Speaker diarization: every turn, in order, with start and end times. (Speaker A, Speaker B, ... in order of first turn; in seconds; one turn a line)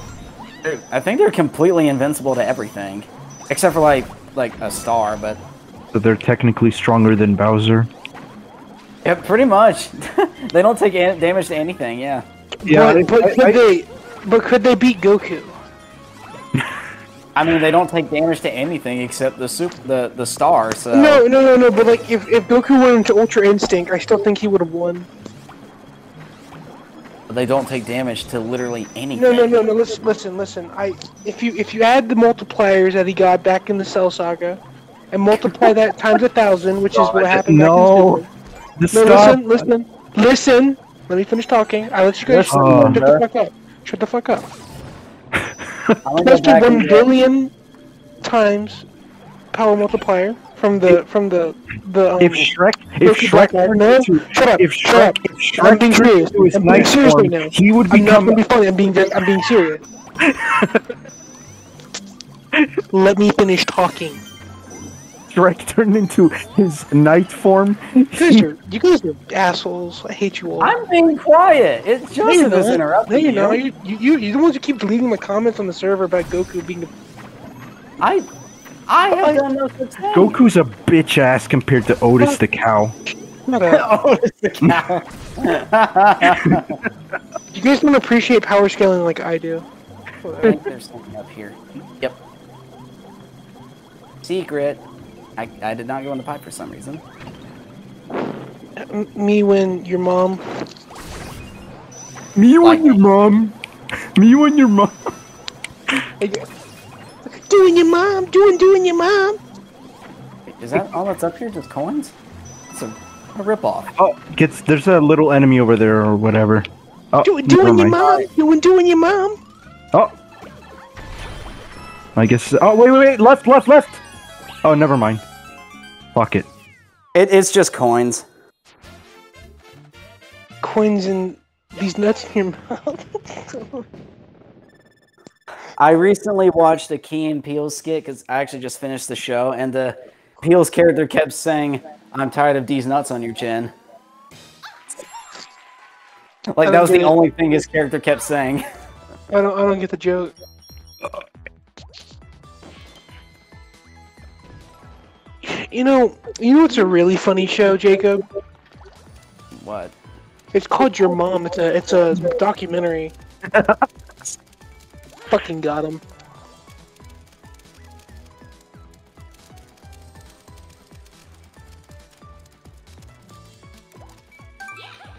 Speaker A: 0.6-5.4
Speaker B: 5.9-7.9
Speaker A: 9.0-12.2
Speaker C: 12.6-15.6
Speaker B: 12.6-13.6
Speaker A: 17.3-21.2
Speaker C: 20.9-25.1
Speaker A: 27.3-29.5
Speaker C: 29.1-34.6
Speaker C: 35.1-38.3
Speaker B: 37.0-38.2
Speaker B: 38.8-39.7
Speaker C: 38.9-44.5
Speaker A: 42.2-43.2
Speaker B: 42.5-43.0
Speaker B: 45.3-46.0
Speaker A: 46.0-47.1
Speaker C: 46.2-47.5
Speaker C: 48.2-48.8
Speaker C: 49.5-59.8
Speaker B: 52.2-58.4
Speaker B: 60.2-60.8
Speaker C: 62.9-64.2
Speaker B: 65.3-68.5
Speaker C: 68.2-70.7
Speaker A: 70.6-73.6
Speaker C: 72.2-76.9
Speaker A: 78.0-78.2
Speaker A: 78.9-80.4
Speaker B: 80.1-82.9
Speaker C: 83.5-83.8
Speaker A: 83.6-86.8
Speaker B: 86.2-86.7
Speaker C: 87.5-89.6
Speaker C: 90.2-90.6
Speaker A: 90.4-92.2
Speaker A: 94.2-94.8
Speaker A: 95.4-97.0
Speaker C: 98.8-100.4
Speaker B: 102.3-103.5
Speaker A: 102.6-102.9
Speaker B: 104.1-105.0
Speaker C: 106.2-106.4
Speaker C: 107.2-109.4
Speaker A: 110.6-112.1
Speaker A: 112.7-113.9
Speaker B: 114.0-118.0
Speaker C: 117.2-119.4
Speaker A: 117.9-118.3
Speaker B: 122.1-124.0
Speaker B: 124.6-125.2
Speaker B: 126.1-126.5
Speaker A: 127.1-128.2
Speaker C: 130.6-133.8
Speaker A: 135.8-143.7
Speaker A: 146.5-148.6
Speaker C: 146.6-147.2
Speaker C: 149.3-150.3
Speaker C: 155.4-158.2
Speaker A: 159.5-159.9
Speaker C: 160.5-163.1
Speaker B: 163.5-163.8
Speaker C: 165.3-166.0